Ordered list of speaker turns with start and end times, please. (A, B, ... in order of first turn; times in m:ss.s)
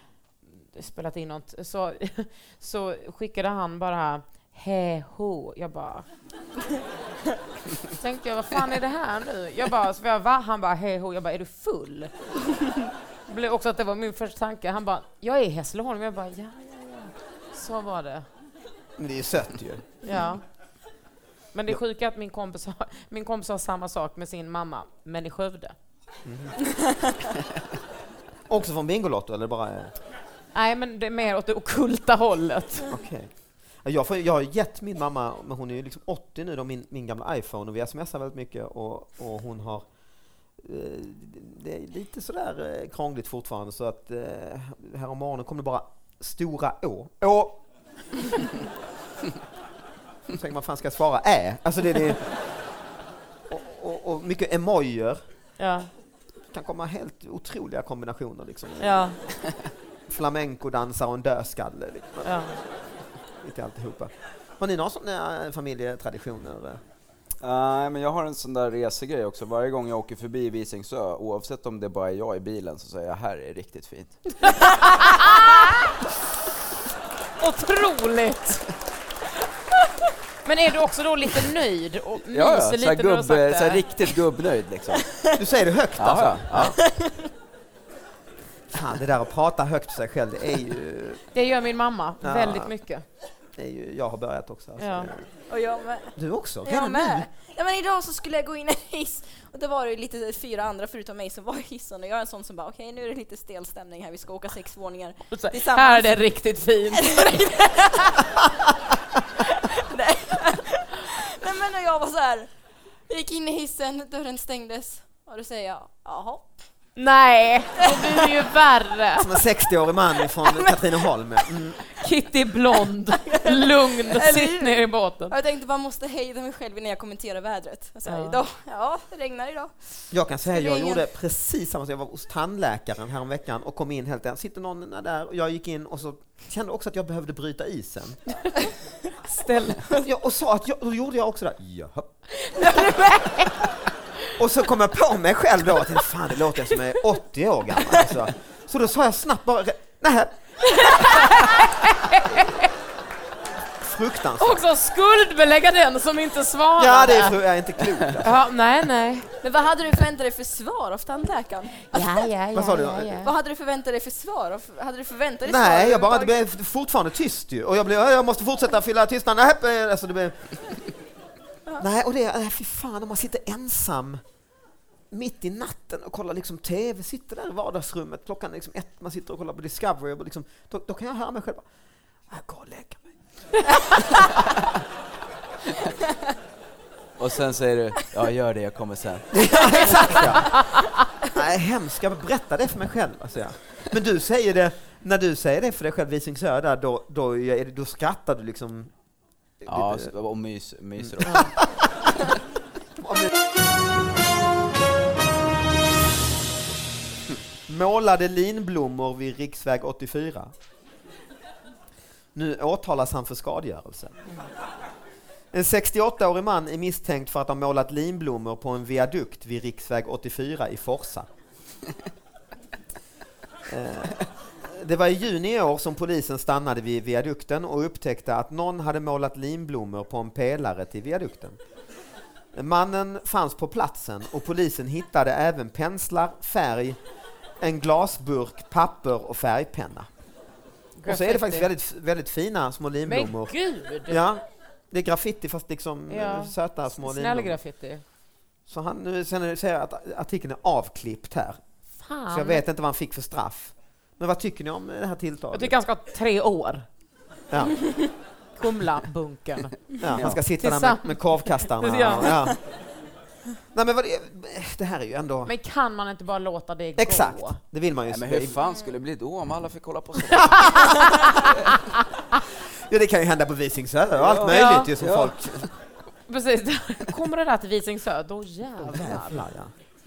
0:00.6-0:06.0 A
0:07.9-0:12.1 A
0:13.3-0:18.2 A
0:19.0-0:19.8 B
0:20.0-0:20.4 A
0:21.5-0:25.8 A
0:26.2-0:26.5 B
0:28.5-0:29.9 B
0:30.5-0:32.9 A
0:32.9-0:33.3 B
0:33.8-0:39.8 B
0:40.6-0:47.6 B
0:50.3-0:52.3 B
0:53.5-0:55.2 B
0:55.6-0:55.9 A
0:56.5-0:59.1 B
0:58.8-0:59.2 A
1:00.1-1:02.6 B
1:02.2-1:02.6 A
1:03.4-1:06.8 B
1:07.4-1:14.4 C
1:14.6-1:15.9 A
1:17.4-1:18.7 A
1:20.4-1:23.8 A
1:22.3-1:25.1 C
1:25.0-1:25.4 D
1:25.3-1:26.8 B
1:26.0-1:26.8 C
1:26.6-1:27.3 D
1:28.7-1:31.2 B
1:31.3-1:33.0 A
1:32.2-1:32.7 B
1:33.6-1:35.2 B
1:34.8-1:35.1 A
1:35.5-1:46.2 D
1:36.2-1:37.3 B
1:45.3-1:47.3 A
1:46.9-1:52.5 D
1:53.1-1:56.6 D
1:57.0-1:59.3 A
1:57.8-1:58.5 D
1:59.2-2:01.8 B
2:00.2-2:01.1 D
2:01.9-2:05.3 A
2:03.1-2:11.0 D
2:08.0-2:08.4 A
2:10.1-2:18.4 B
2:19.3-2:19.9 A
2:19.9-2:22.1 B
2:22.4-2:23.6 A
2:24.4-2:31.1 B
2:30.6-2:32.7 A
2:33.8-2:34.6 B
2:34.4-2:37.4 A
2:36.8-2:38.4 B
2:38.2-2:39.3 A
2:39.4-2:42.2 D
2:41.9-2:43.3 A
2:42.5-2:43.3 B
2:43.1-2:46.3 D
2:45.4-2:50.4 B
2:51.8-2:54.2 B
2:55.1-3:01.6 B
3:02.3-3:03.1 B
3:03.6-3:04.2 B
3:07.2-3:10.1 C
3:09.3-3:10.7 B
3:11.2-3:18.9 B
3:19.6-3:20.1 B
3:19.7-3:21.5 C
3:21.0-3:22.3 B
3:23.0-3:23.3 B
3:27.7-3:30.5 B
3:32.3-3:34.1 B
3:35.5-3:41.3 B
3:43.6-3:51.6 B
3:52.5-3:57.0 B
3:57.6-4:00.1 B
4:01.0-4:01.7 A
4:01.0-4:03.5 B
4:03.0-4:04.2 A
4:04.1-4:07.6 B
4:06.1-4:08.0 A
4:08.7-4:11.6 B
4:12.0-4:12.6 A
4:12.3-4:15.7 B
4:15.5-4:16.8 A
4:17.5-4:17.8 B
4:18.6-4:22.4 A
4:20.0-4:22.6 B
4:23.7-4:25.5 B
4:25.4-4:27.6 A
4:27.0-4:28.6 B
4:28.1-4:31.0 C
4:30.4-4:32.0 A
4:32.9-4:35.7 B
4:34.1-4:35.6 C
4:34.5-4:34.9 A
4:36.3-4:39.4 A
4:38.8-4:39.7 B